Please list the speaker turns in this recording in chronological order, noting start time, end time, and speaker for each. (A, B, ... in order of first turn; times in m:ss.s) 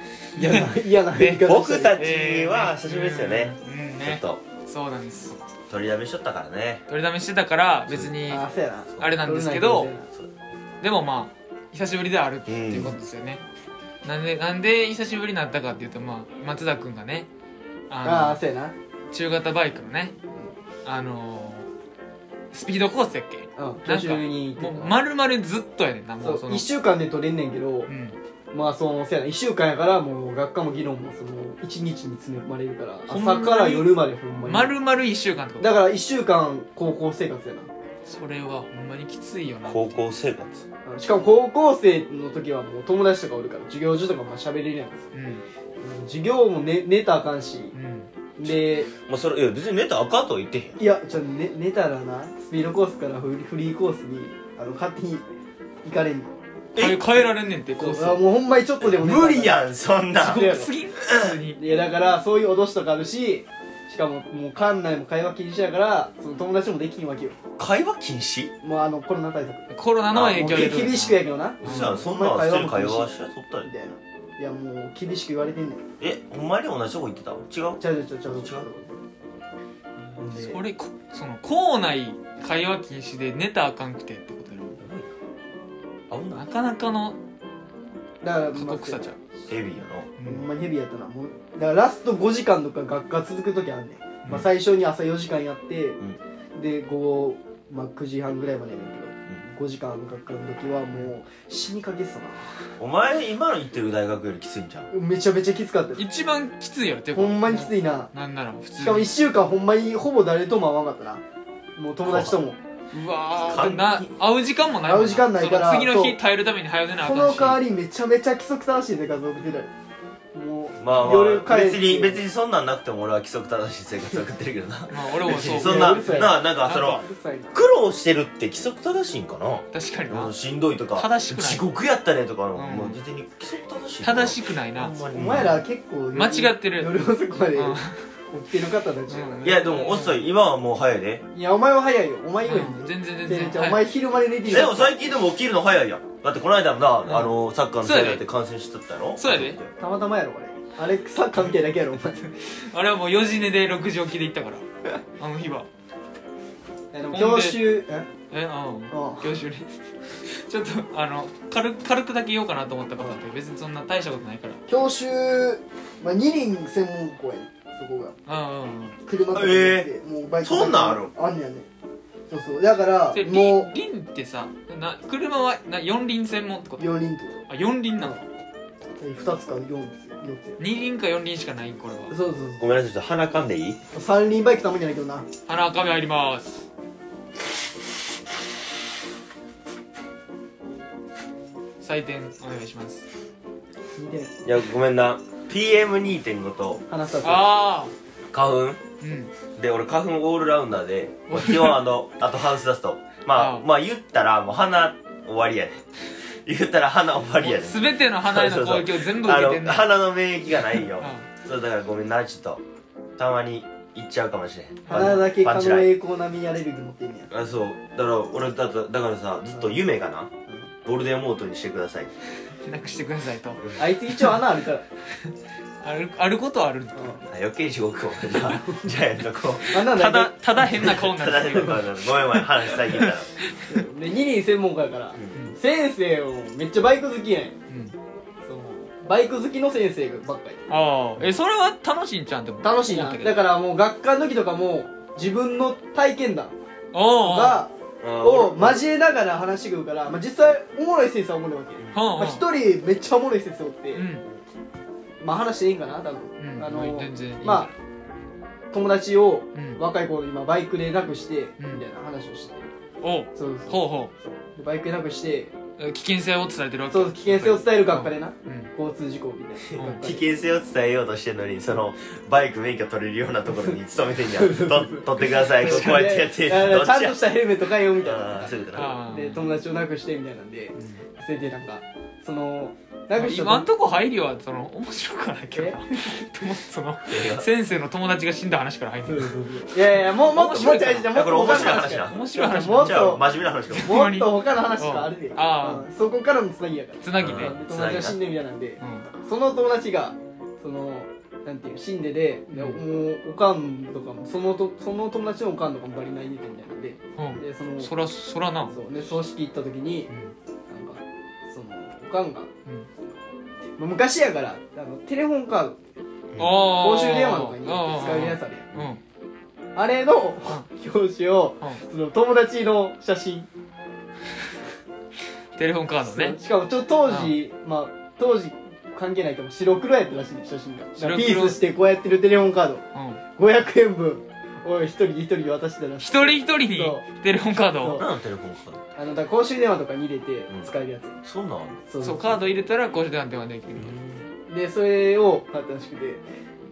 0:00.4-0:02.0 A
0:00.4-0:05.4 B
0:01.4-0:04.4 C
0:05.7-0:06.8 C
0:06.9-0:08.4 B
0:07.9-0:08.2 C
0:08.2-0:10.1 A
0:09.0-0:09.9 B
0:10.8-0:13.4 B
0:12.5-0:12.9 C
0:14.0-0:17.3 B
0:17.9-0:18.4 B
0:18.0-0:18.7 A
0:19.1-0:20.1 B
0:20.8-0:21.7 B
0:22.5-0:26.6 B
0:23.6-0:25.0 A
0:26.2-0:27.9 A
0:27.9-0:28.2 B
0:28.5-0:34.8 A
0:33.1-0:35.8 B
0:35.6-0:37.7 A
0:38.0-0:40.0 B
0:39.6-0:40.6 C
0:40.8-0:45.0 A
0:45.1-0:45.4 B
0:45.8-0:47.7 A
0:47.7-0:48.1 B
0:48.4-0:48.9 A
0:49.0-0:50.8 C
0:50.8-0:55.2 A
0:55.8-0:56.3 A
0:56.7-0:58.2 B
0:56.8-0:57.0 C
0:57.8-0:59.7 A
0:58.8-1:00.4 C
1:00.1-1:01.7 B
1:00.3-1:00.7 A
1:01.0-1:01.4 C
1:01.6-1:07.4 A
1:07.6-1:08.5 C
1:08.6-1:09.7 A
1:09.7-1:12.1 B
1:10.1-1:10.9 C
1:10.3-1:15.8 A
1:11.6-1:13.7 C
1:16.0-1:18.7 C
1:17.8-1:18.9 A
1:20.1-1:24.8 B
1:20.2-1:20.6 A
1:24.8-1:25.1 C
1:26.1-1:26.4 C
1:26.3-1:27.2 B
1:28.2-1:29.2 A
1:28.5-1:29.2 B
1:29.5-1:30.1 C
1:30.2-1:30.4 B
1:30.2-1:36.0 A
1:36.6-1:42.6 A
1:42.8-1:44.9 C
1:44.9-1:46.0 A
1:45.9-1:49.1 B
1:47.1-1:48.1 A
1:48.8-1:51.2 A
1:51.8-1:52.6 A
1:52.0-1:52.4 C
1:52.9-1:57.6 B
1:53.4-1:54.1 C
1:54.8-1:56.2 A
1:57.0-1:59.7 A
2:00.3-2:02.2 A
2:00.8-2:07.0 C
2:00.9-2:01.2 B
2:04.9-2:07.0 B
2:05.2-2:07.6 A
2:07.5-2:14.4 C
2:09.7-2:10.3 B
2:10.9-2:11.6 B
2:12.5-2:13.0 B
2:14.0-2:15.6 B
2:14.8-2:19.5 A
2:15.0-2:15.6 C
2:16.1-2:16.9 B
2:17.5-2:18.0 B
2:19.1-2:20.3 B
2:19.4-2:21.2 C
2:21.3-2:25.0 A
2:22.4-2:23.8 B
2:24.4-2:29.7 C
2:27.0-2:27.3 B
2:27.8-2:28.2 B
2:29.2-2:29.6 B
2:29.8-2:32.2 A
2:32.4-2:34.6 B
2:35.2-2:35.7 B
2:36.9-2:38.1 A
2:37.1-2:44.6 B
2:38.9-2:39.2 A
2:44.7-2:48.1 A
2:48.3-2:49.0 B
2:49.0-2:51.7 A
2:49.3-2:49.9 C
2:50.4-2:51.1 C
2:52.3-2:53.7 A
2:53.1-2:56.9 B
2:56.8-2:57.4 A
2:57.5-2:58.2 B
2:58.0-2:58.2 A
2:59.0-3:00.6 A
3:00.6-3:02.1 B
3:02.1-3:02.7 A
3:02.6-3:03.8 C
3:03.9-3:05.3 A
3:05.4-3:06.6 B
3:11.8-3:13.0 B
3:13.9-3:14.3 A
3:14.4-3:16.8 C
3:16.9-3:17.5 A
3:17.2-3:17.9 B
3:18.3-3:18.8 C
3:19.0-3:19.3 B
3:19.6-3:25.8 C
3:21.3-3:21.8 B
3:23.3-3:23.6 B
3:26.4-3:32.6 C
3:27.4-3:29.9 B
3:30.7-3:31.3 B
3:33.2-3:35.9 C
3:34.8-3:35.3 B
3:34.9-3:37.3 A
3:37.3-3:40.3 C
3:40.8-3:42.1 C
3:42.6-3:44.4 B
3:43.7-3:44.8 A
3:45.8-3:47.3 B
3:46.9-3:47.2 A
3:47.3-3:49.7 C
3:48.3-3:48.6 B
3:48.4-3:48.9 A
3:49.7-3:51.0 A
3:49.7-3:53.6 B
3:50.6-3:53.3 C
3:53.7-3:57.5 A
3:57.7-3:57.9 B
3:58.4-4:00.7 A
4:00.7-4:03.5 B
4:02.6-4:06.5 A
4:06.9-4:07.6 B
4:07.2-4:14.0 A
4:08.0-4:08.8 C
4:11.9-4:12.4 B
4:13.9-4:14.2 B
4:15.2-4:17.7 A
4:16.4-4:17.7 B
4:18.7-4:22.7 A
4:19.5-4:19.8 B
4:21.6-4:21.8 B
4:23.0-4:24.1 B
4:23.3-4:25.5 A
4:25.8-4:28.7 B
4:26.9-4:30.2 A
4:29.7-4:37.2 C
4:29.8-4:30.0 B
4:34.3-4:43.7 A
4:35.3-4:36.2 B
4:38.0-4:39.0 C
4:38.7-4:39.5 B
4:43.1-4:55.9 B
4:45.5-4:45.8 A
4:47.1-4:47.5 C
4:49.0-5:07.9 A
4:51.1-4:54.0 C
4:57.0-4:57.6 B
4:57.2-4:58.2 C
4:58.8-4:59.0 B
5:02.5-5:02.8 B
5:07.2-5:08.7 B
5:08.7-5:10.1 A
5:10.7-5:12.5 A
5:13.8-5:15.8 A
5:16.3-5:16.6 C
5:16.4-5:19.0 B
5:16.6-5:18.7 A
5:19.7-5:23.5 A
5:25.6-5:26.4 B
5:26.0-5:32.8 A
5:27.0-5:27.4 B
5:31.0-5:31.6 B
5:32.9-5:33.2 B
5:33.4-5:37.0 A
5:36.0-5:38.0 B
5:37.8-5:38.1 A
5:38.0-5:38.8 C
5:39.0-5:41.2 A
5:41.2-5:41.8 C
5:41.9-5:42.4 A
5:42.0-5:44.0 B
5:43.8-5:44.2 C
5:44.5-5:46.2 A